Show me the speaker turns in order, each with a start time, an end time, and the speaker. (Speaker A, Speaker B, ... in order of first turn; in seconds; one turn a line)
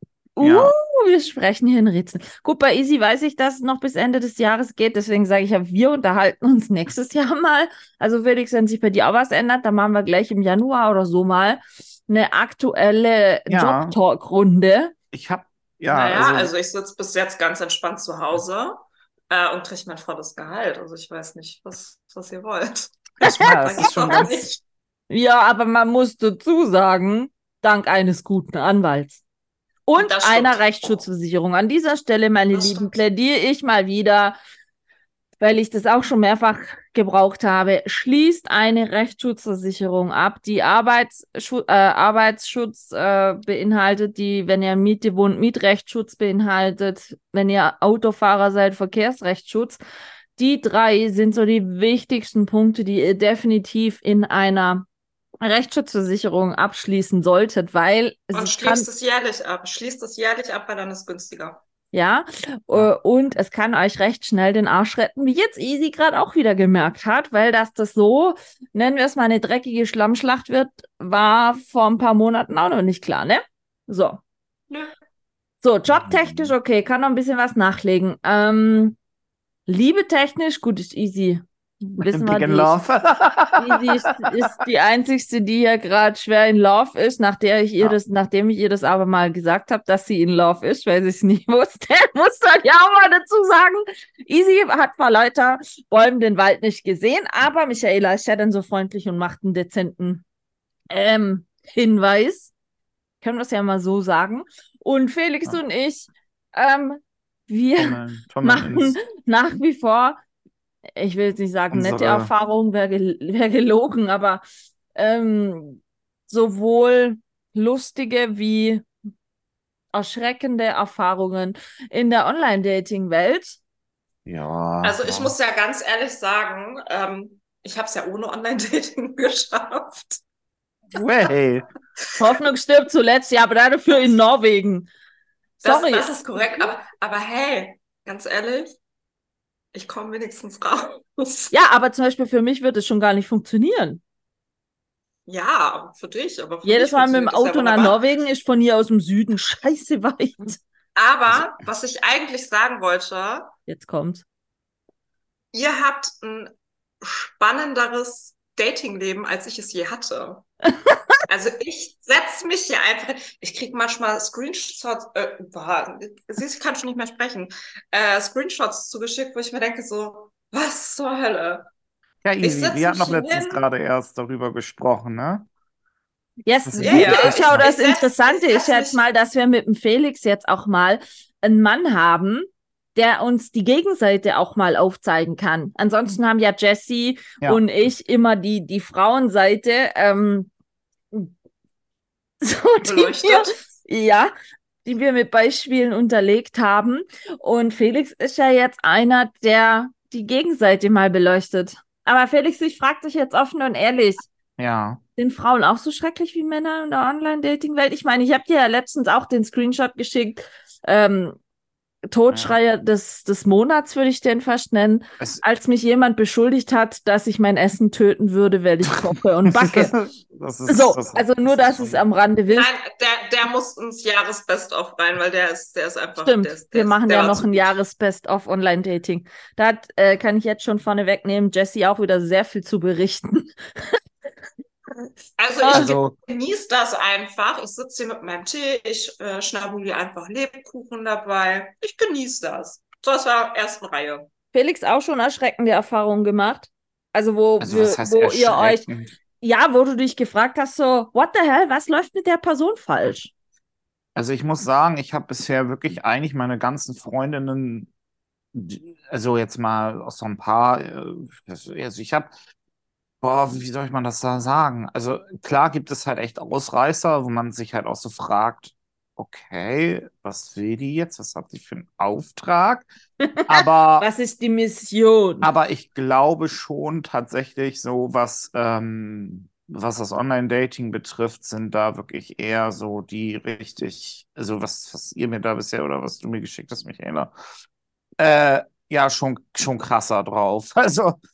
Speaker A: 0.3-14.9
Speaker B: 0.4-0.7
Speaker B: 13.5-13.9
Speaker B: 15.1-16.5
Speaker C: 15.9-24.6
Speaker B: 23.2-24.4
Speaker A: 25.1-29.2
Speaker A: 29.9-34.4
Speaker C: 29.9-31.0
Speaker C: 32.5-32.9
Speaker A: 35.4-49.8
Speaker A: 50.4-54.9
Speaker A: 55.4-58.9
Speaker C: 58.3-61.6
Speaker A: 61.9-74.2
Speaker A: 75.6-79.0
Speaker B: 75.9-76.5
Speaker A: 79.7-82.8
Speaker B: 82.0-84.4
Speaker A: 83.6-100.2
Speaker A: 100.9-102.5
Speaker A: 103.2-110.2
Speaker B: 107.8-109.0
Speaker A: 111.0-114.4
Speaker B: 111.7-112.3
Speaker A: 114.9-118.9
Speaker A: 119.9-123.6
Speaker B: 124.2-125.3
Speaker C: 124.8-130.2
Speaker B: 130.9-131.6
Speaker A: 132.2-134.9
Speaker C: 135.6-138.7
Speaker A: 135.6-136.7
Speaker C: 139.7-141.5
Speaker A: 141.5-144.0
Speaker C: 145.3-148.0
Speaker A: 146.6-150.6
Speaker C: 150.9-153.5
Speaker A: 153.7-154.2
Speaker C: 155.5-160.4
Speaker C: 161.3-171.7
Speaker B: 172.2-175.4
Speaker C: 172.4-173.6
Speaker A: 176.4-190.5
Speaker B: 176.7-177.7
Speaker C: 176.8-179.0
Speaker A: 192.4-194.3
Speaker C: 192.8-193.5
Speaker A: 194.8-204.2
Speaker B: 204.6-205.0
Speaker A: 205.2-211.4
Speaker A: 212.1-219.9
Speaker B: 212.3-212.6
Speaker B: 218.9-222.0
Speaker A: 220.7-222.7
Speaker C: 222.5-227.7
Speaker A: 226.2-234.0
Speaker C: 235.4-244.3
Speaker A: 235.6-235.9
Speaker B: 235.7-236.1
Speaker A: 244.5-248.9
Speaker B: 247.6-249.1
Speaker A: 249.4-253.3
Speaker B: 254.2-257.9
Speaker B: 258.5-262.3
Speaker B: 263.2-272.9
Speaker A: 273.3-275.5
Speaker B: 273.4-274.1
Speaker B: 275.4-287.3
Speaker B: 288.2-291.2